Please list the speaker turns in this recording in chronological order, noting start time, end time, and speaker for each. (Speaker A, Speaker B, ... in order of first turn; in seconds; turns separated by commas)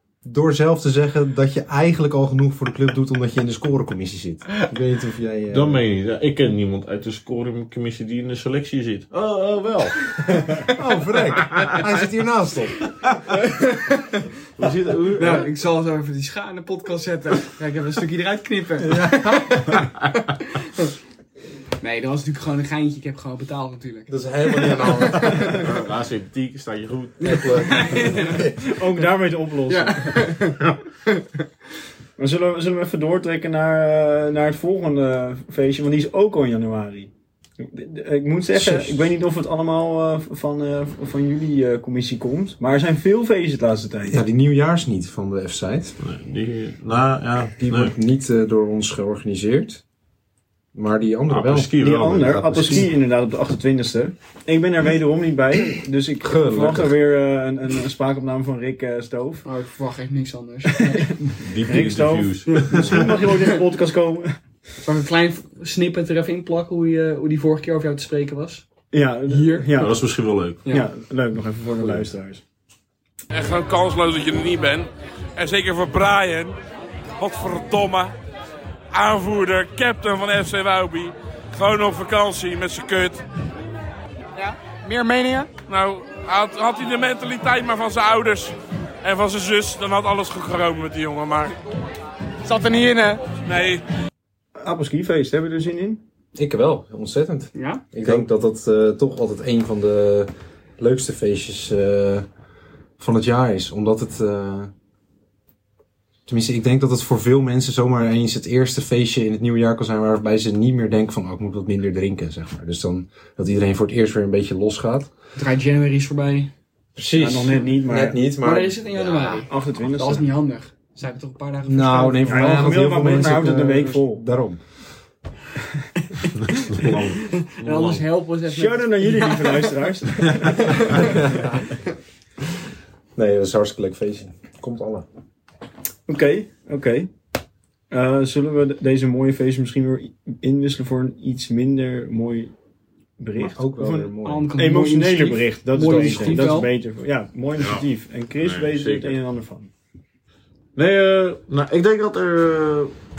Speaker A: 0.2-5.8, Speaker B: 5.5-10.1, Speaker A: 10.6-13.3, Speaker B: 11.5-11.8, Speaker C: 13.3-14.2, Speaker B: 14.5-15.5, Speaker C: 15.2-20.0, Speaker A: 18.8-19.7, Speaker C: 20.6-20.9, Speaker C: 21.8-25.6, Speaker A: 24.1-25.6, Speaker B: 25.6-27.7, Speaker C: 27.2-28.5, Speaker A: 27.2-28.6, Speaker D: 28.6-30.3, Speaker C: 29.7-31.3, Speaker D: 32.2-44.2, Speaker A: 38.5-39.1, Speaker A: 44.0-46.0, Speaker B: 46.0-47.9, Speaker A: 47.6-49.8, Speaker A: 50.7-52.8, Speaker B: 51.3-52.9, Speaker D: 51.8-59.4, Speaker A: 56.2-57.0, Speaker C: 59.4-61.1, Speaker D: 60.9-64.4, Speaker B: 61.4-63.2, Speaker C: 62.5-62.9, Speaker C: 64.8-68.6, Speaker D: 68.9-70.0, Speaker C: 69.3-69.8, Speaker B: 69.8-70.6, Speaker D: 70.7-72.4, Speaker B: 71.8-72.0, Speaker E: 73.3-76.5, Speaker E: 77.2-78.1, Speaker E: 78.9-83.2, Speaker C: 84.3-85.5, Speaker E: 85.7-91.5, Speaker C: 92.4-93.2, Speaker E: 93.4-93.8, Speaker D: 94.6-96.0, Speaker A: 96.3-102.3, Speaker C: 97.5-97.8, Speaker A: 103.0-104.7, Speaker A: 106.3-115.1, Speaker C: 115.3-116.5, Speaker A: 117.0-119.4, Speaker D: 117.2-118.2, Speaker C: 118.4-122.9, Speaker D: 119.4-120.2, Speaker A: 121.7-124.6, Speaker D: 122.2-124.2, Speaker C: 126.1-131.4, Speaker B: 126.4-128.0, Speaker D: 128.4-131.4, Speaker A: 131.0-131.5, Speaker A: 133.1-135.1, Speaker D: 136.1-137.1, Speaker D: 137.9-142.5, Speaker D: 143.2-149.7, Speaker A: 143.4-144.5, Speaker C: 144.2-146.7, Speaker B: 147.6-147.8, Speaker B: 148.4-149.2, Speaker B: 150.8-152.9